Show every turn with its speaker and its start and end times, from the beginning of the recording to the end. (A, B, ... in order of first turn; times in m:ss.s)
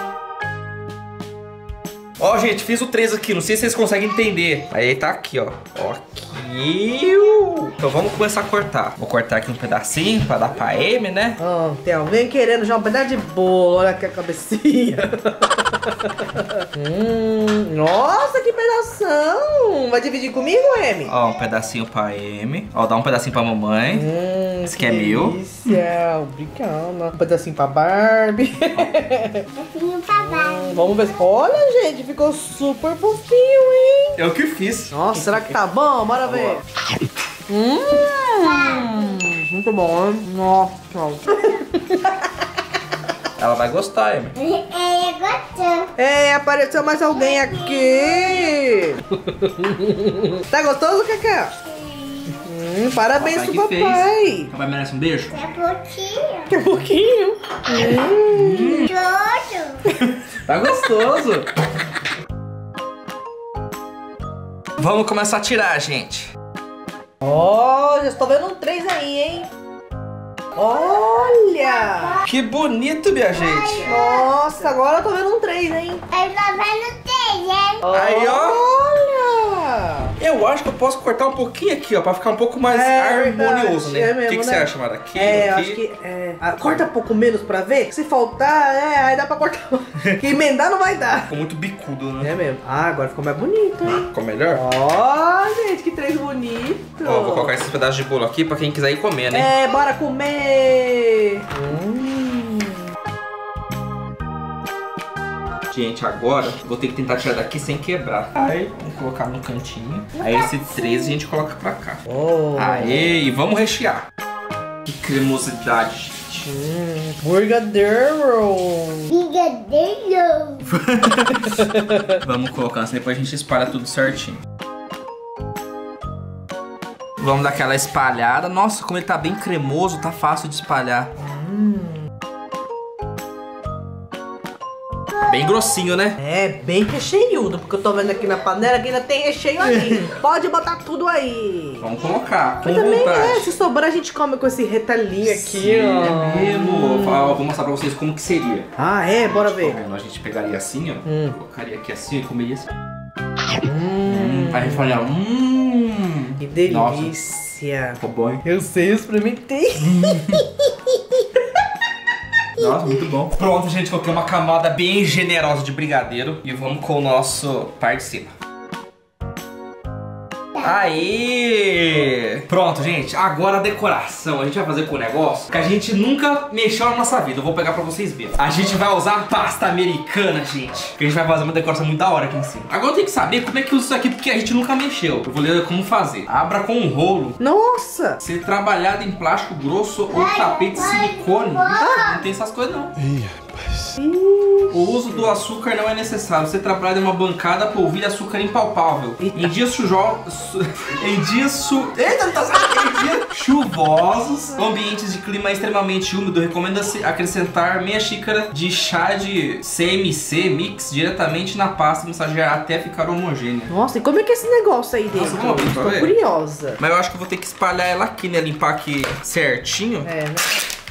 0:02.2-0:11.4 A
0:11.4-0:21.1 B
0:21.0-0:24.1 A
0:23.9-0:29.5 B
0:24.6-0:25.4 A
0:28.7-0:29.0 A
0:29.6-0:31.2 C
0:30.2-0:34.2 B
0:34.2-0:35.5 A
0:34.9-0:36.6 B
0:36.2-0:36.6 A
0:37.5-0:42.1 B
0:43.4-0:44.3 A
0:44.4-0:45.9 C
0:46.0-0:51.5 B
0:47.2-0:48.2 C
0:51.7-0:52.3 C
0:52.4-0:54.5 B
0:53.1-0:55.4 A
0:55.3-0:56.5 C
0:56.5-0:58.9 B
0:57.7-0:58.9 A
0:58.9-0:59.8 C
1:00.0-1:01.5 A
1:04.8-1:06.3 A
1:07.2-1:09.5 B
1:10.6-1:12.2 B
1:12.2-1:13.9 A
1:13.3-1:13.9 C
1:13.8-1:16.0 B
1:16.1-1:17.8 C
1:17.8-1:20.1 B
1:17.9-1:18.6 A
1:20.2-1:25.8 A
1:22.7-1:31.3 B
1:31.2-1:32.3 A
1:32.2-1:37.6 B
1:33.9-1:34.6 A
1:37.0-1:39.5 A
1:39.3-1:42.7 B
1:45.7-1:54.0 A
1:52.1-1:53.1 B
1:54.9-1:56.5 A
1:56.4-1:59.1 B
1:59.1-2:00.6 C
2:00.7-2:04.4 A
2:07.2-2:11.1 A
2:11.2-2:12.0 B
2:15.2-2:16.2 A
2:16.2-2:21.9 B
2:21.8-2:23.5 A
2:22.6-2:27.4 B
2:25.2-2:28.7 A
2:28.8-2:29.8 B
2:29.2-2:32.7 A
2:31.0-2:31.3 B
2:33.6-2:35.0 B
2:34.0-2:37.2 A
2:36.4-2:40.4 B
2:38.0-2:38.4 A
2:42.6-2:48.3 A
2:50.6-3:07.4 A
3:07.4-3:08.2 B
3:08.2-3:12.9 A
3:10.1-3:12.2 C
3:11.8-3:12.1 B
3:14.0-3:15.4 B
3:14.7-3:33.7 A
3:19.2-3:19.5 B
3:33.7-3:36.8 B
3:35.1-3:36.2 A
3:36.8-3:40.1 A
3:40.0-3:40.4 B